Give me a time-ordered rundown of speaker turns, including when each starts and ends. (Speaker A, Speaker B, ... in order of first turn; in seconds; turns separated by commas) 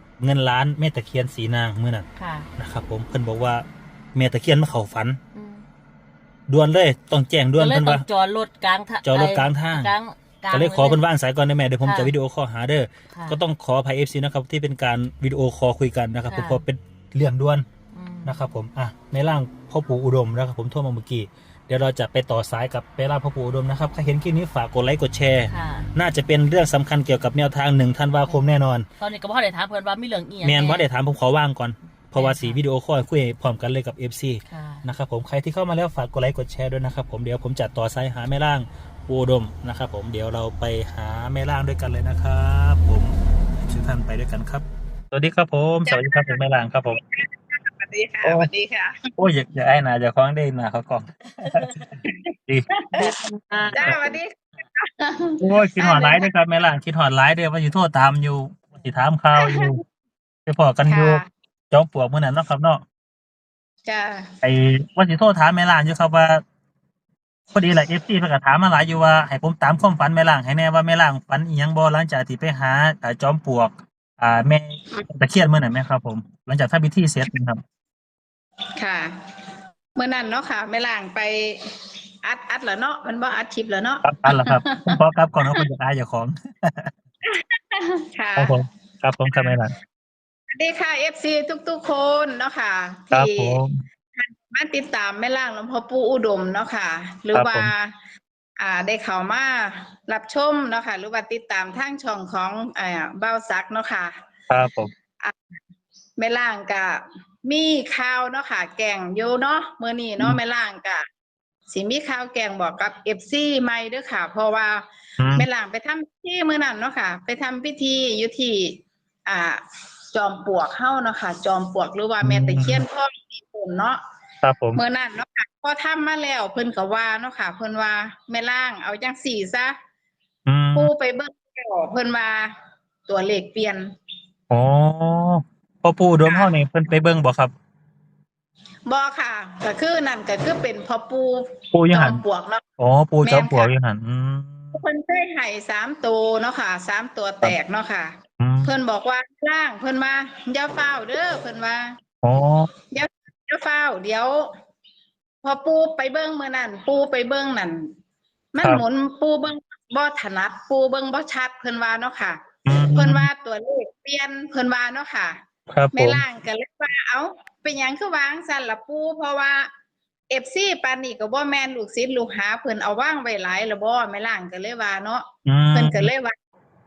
Speaker A: 0.2-2.1, Speaker B: 2.2-2.5, Speaker A: 2.6-3.6, Speaker A: 4.2-5.2, Speaker B: 5.3-5.7, Speaker A: 6.5-8.1, Speaker B: 7.6-11.0, Speaker A: 9.1-9.9, Speaker A: 10.5-17.7, Speaker B: 11.8-12.1, Speaker B: 13.1-13.4, Speaker B: 16.3-16.6, Speaker B: 17.9-18.3, Speaker A: 18.2-28.9, Speaker B: 25.5-25.9, Speaker B: 29.0-30.8, Speaker A: 30.4-47.0, Speaker B: 32.1-32.6, Speaker B: 34.5-34.8, Speaker C: 45.9-49.1, Speaker A: 48.2-48.5, Speaker A: 49.2-51.8, Speaker C: 52.1-53.2, Speaker B: 53.0-54.0, Speaker C: 53.7-56.3, Speaker A: 55.4-59.8, Speaker C: 59.4-59.8, Speaker A: 60.5-62.8, Speaker C: 60.9-61.3, Speaker C: 63.9-64.3, Speaker A: 64.4-66.4, Speaker A: 67.5-77.6, Speaker C: 78.8-79.2, Speaker C: 80.0-81.7, Speaker C: 82.2-85.7, Speaker A: 84.0-86.9, Speaker C: 87.2-88.5, Speaker A: 88.4-89.8, Speaker C: 89.2-89.6, Speaker C: 90.5-93.6, Speaker A: 93.1-93.8, Speaker C: 94.2-98.0, Speaker A: 97.3-97.7, Speaker C: 98.6-104.1, Speaker A: 104.5-104.9, Speaker C: 106.2-111.1, Speaker C: 111.7-114.8, Speaker A: 115.2-115.5, Speaker C: 115.4-124.0, Speaker A: 122.2-122.8, Speaker A: 124.4-124.8, Speaker C: 124.8-129.8, Speaker A: 130.5-130.9, Speaker C: 130.8-132.5, Speaker C: 133.1-133.9, Speaker A: 134.5-137.5, Speaker C: 136.2-136.5, Speaker C: 138.9-142.6, Speaker A: 141.7-142.2, Speaker A: 142.8-144.8, Speaker C: 143.2-143.7, Speaker C: 144.7-152.0, Speaker A: 148.4-148.7, Speaker A: 152.2-152.7, Speaker C: 152.9-154.5, Speaker C: 155.4-157.9, Speaker C: 158.5-162.4, Speaker A: 162.7-163.3, Speaker C: 162.9-165.4, Speaker A: 165.7-166.2, Speaker C: 165.9-169.7, Speaker C: 170.3-176.3, Speaker A: 175.5-176.1